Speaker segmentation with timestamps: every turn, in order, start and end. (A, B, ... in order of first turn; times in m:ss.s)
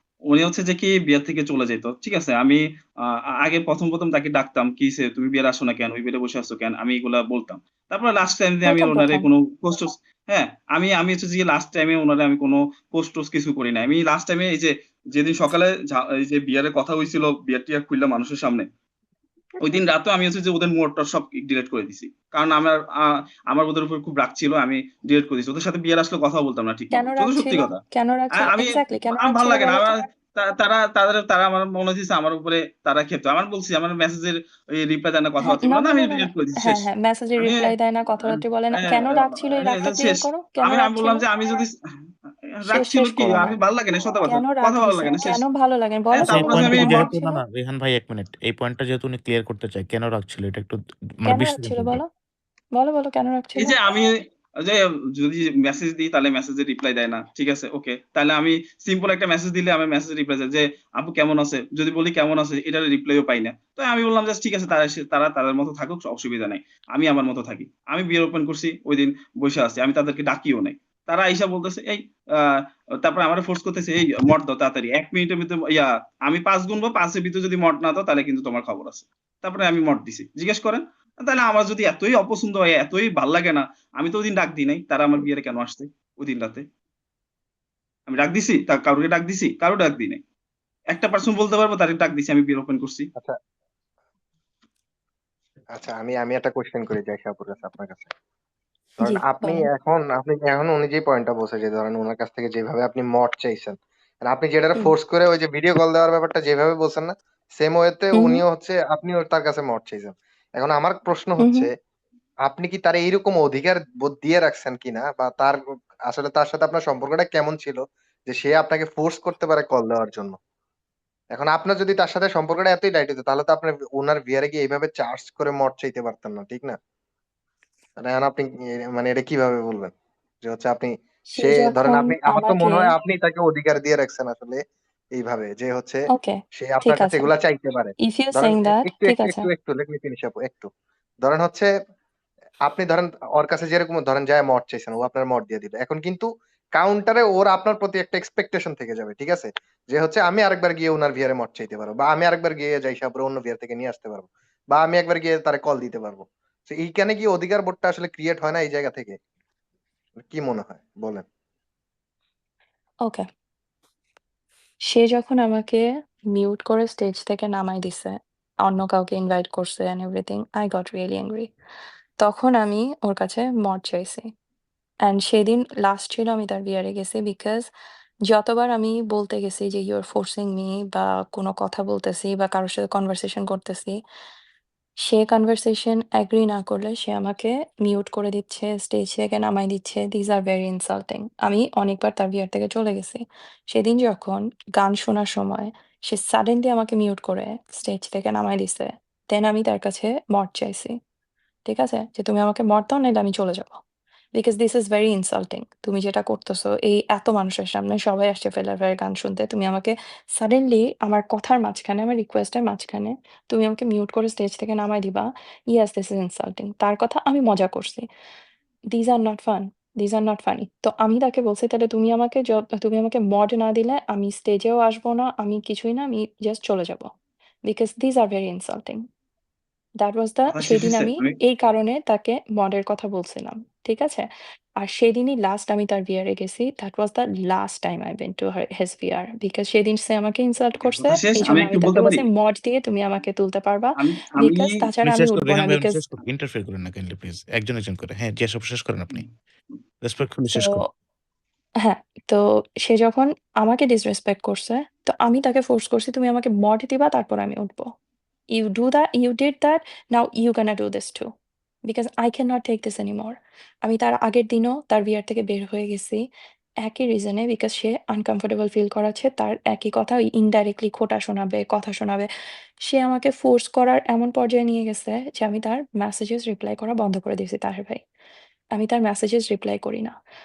0:00.3-0:18.7 A
0:08.6-0:09.2 B
0:19.6-0:27.8 A
0:26.9-0:30.0 B
0:28.4-0:36.8 A
0:35.4-0:41.2 B
0:37.4-0:37.7 A
0:38.2-0:41.7 A
0:42.5-0:45.4 A
0:42.7-0:43.6 B
0:44.2-0:47.4 B
0:46.2-0:47.1 A
0:46.3-0:52.0 C
0:51.3-0:52.1 B
0:52.8-0:53.8 B
0:53.6-1:26.6 A
1:28.1-1:30.2 A
1:30.9-1:33.1 A
1:35.7-1:38.1 D
1:39.0-1:51.7 D
1:39.0-1:39.7 B
1:48.1-1:48.4 B
1:51.4-1:51.7 B
1:52.4-2:00.4 D
2:01.3-2:06.8 D
2:08.0-2:14.6 D
2:11.3-2:12.9 B
2:15.1-2:20.7 D
2:16.1-2:17.3 B
2:18.0-2:19.5 B
2:21.2-2:21.7 D
2:22.6-2:39.2 D
2:40.2-2:41.2 D
2:44.9-2:51.5 B
2:52.2-2:54.3 B
2:55.0-2:57.7 B
2:58.3-3:04.0 B
3:05.0-3:13.2 B
3:13.7-3:21.0 B
3:21.6-3:23.8 B
3:24.3-3:38.1 B
3:38.9-3:47.1 B
3:47.6-3:49.0 B
3:50.0-3:54.3 B
3:50.5-3:51.3 A
3:54.8-4:06.0 B
4:00.8-4:02.2 A
4:04.0-4:04.7 A
4:05.0-4:09.2 C
4:10.0-4:10.8 C
4:10.5-4:10.8 B
4:11.8-4:17.9 B
4:18.5-4:21.3 B
4:21.9-4:26.2 B
4:26.8-4:32.3 B
4:32.8-4:38.0 B
4:38.7-4:40.1 B